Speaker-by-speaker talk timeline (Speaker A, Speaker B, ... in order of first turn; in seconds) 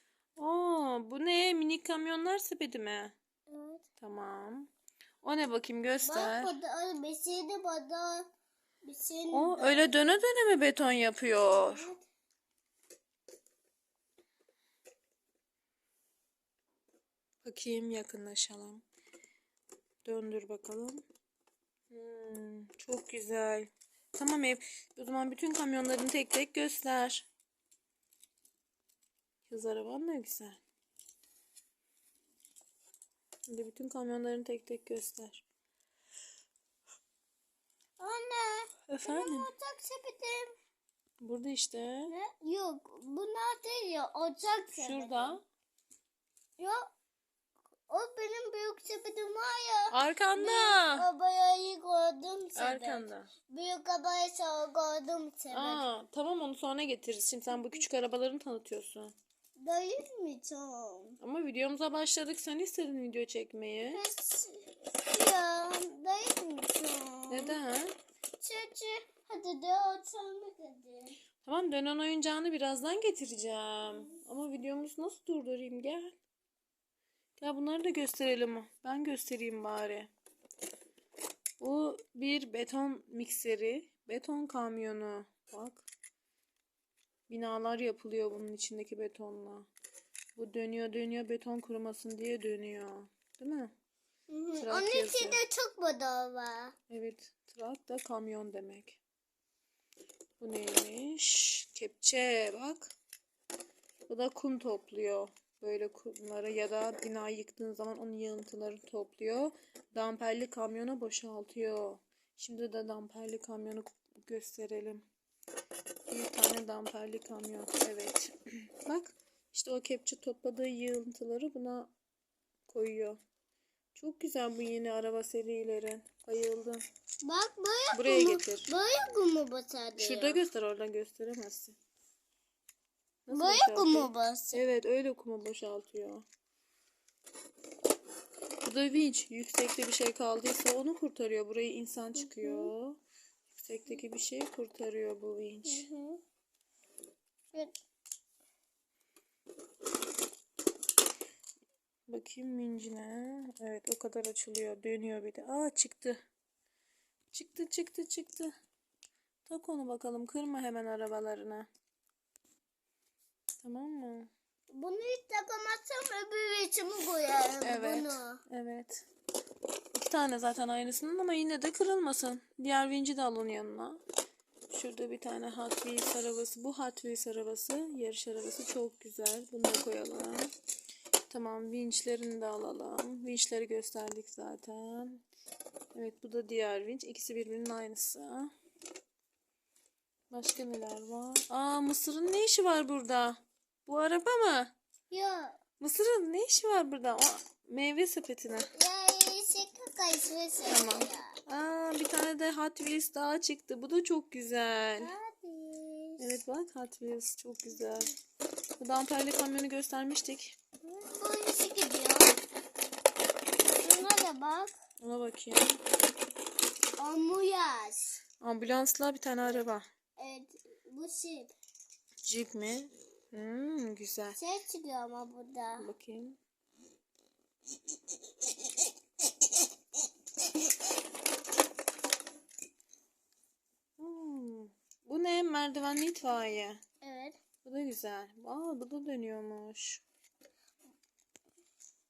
Speaker A: 0.4-3.1, 4.0-4.7, 5.2-6.5, 9.3-11.9, 17.4-18.8, 20.1-21.0, 21.9-27.3, 29.5-30.6, 33.5-35.4, 38.9-39.5, 41.2-42.1, 44.7-45.4, 49.9-51.1, 52.6-53.3, 55.5-59.1, 61.2-64.0, 67.3-68.0, 71.5-76.2, 77.4-80.1, 81.6-85.9, 87.3-89.7, 90.4-93.7, 94.6-95.4, 96.9-99.0, 100.4-102.9, 104.1-115.1, 116.1-121.9, 122.7-123.2, 124.0-126.8, 127.9-128.7, 130.0-131.8, 133.3-136.2, 138.6-143.0, 143.6-145.9, 152.1-156.2, 157.3-158.5, 159.5-161.7, 163.6-164.3, 167.6-169.1, 169.9-174.0, 174.7-180.5, 181.3-185.2, 185.9-188.5, 190.3-194.7, 195.8-198.7, 200.7-205.1, 206.2-208.1, 208.8-210.6, 215.0-215.8, 218.4-219.9, 222.2-224.4, 225.8-226.4, 234.0-236.8, 237.6-240.0
Speaker B: 3.5-3.9, 6.0-8.3, 8.8-10.2, 11.5-12.0, 38.0-40.5, 42.1-45.4, 46.6-46.9, 47.9-55.8, 59.6-61.2, 63.9-67.6, 68.4-71.2, 94.3-96.8, 127.2-130.4, 133.3-134.6, 142.2-142.7, 145.7-146.2, 164.7-168.4, 195.1-195.6, 198.7-201.4, 205.0-206.4, 210.8-212.4, 213.8-214.7, 217.0-218.2, 220.2-221.5, 224.4-225.9, 237.0-237.4